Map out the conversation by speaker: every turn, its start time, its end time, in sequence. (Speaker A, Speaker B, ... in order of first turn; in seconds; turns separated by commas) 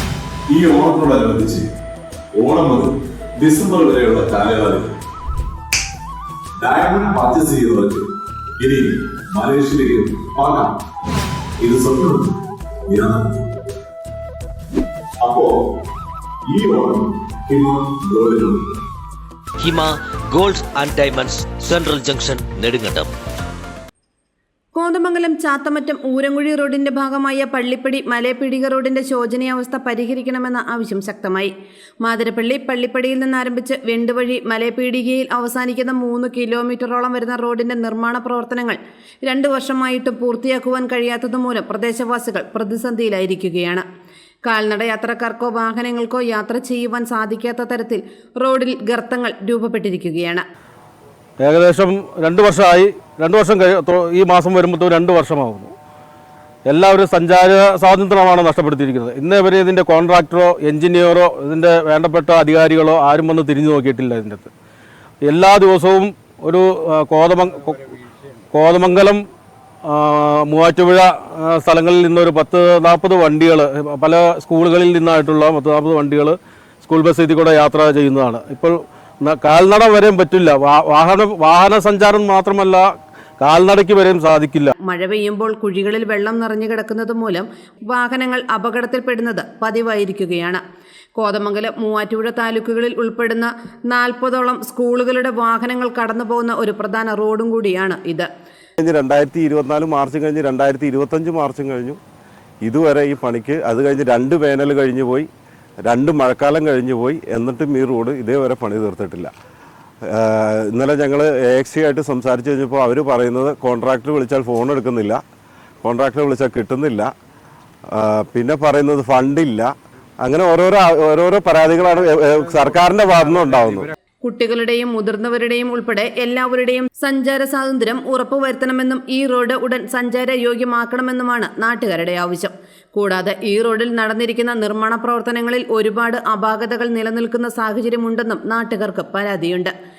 Speaker A: 0.5-1.7, Speaker A: 2.4-4.9, Speaker A: 6.6-8.0, Speaker A: 8.6-10.7, Speaker A: 11.6-12.3, Speaker A: 12.9-13.4, Speaker A: 15.2-15.5, Speaker A: 16.4-18.6, Speaker B: 19.6-23.1, Speaker C: 24.7-31.5, Speaker C: 32.0-43.8, Speaker C: 44.5-50.4, Speaker D: 51.4-55.7, Speaker D: 56.6-64.5, Speaker D: 65.2-67.9, Speaker D: 68.5-69.2, Speaker D: 69.8-82.8, Speaker D: 83.4-84.7, Speaker C: 84.8-90.6, Speaker C: 91.2-98.3, Speaker E: 98.8-102.0, Speaker E: 102.6-105.3, Speaker E: 105.9-109.3, Speaker E: 110.1-115.2, Speaker E: 115.8-117.1, Speaker E: 117.9-119.7, Speaker E: 120.2-123.9, Speaker C: 124.2-139.7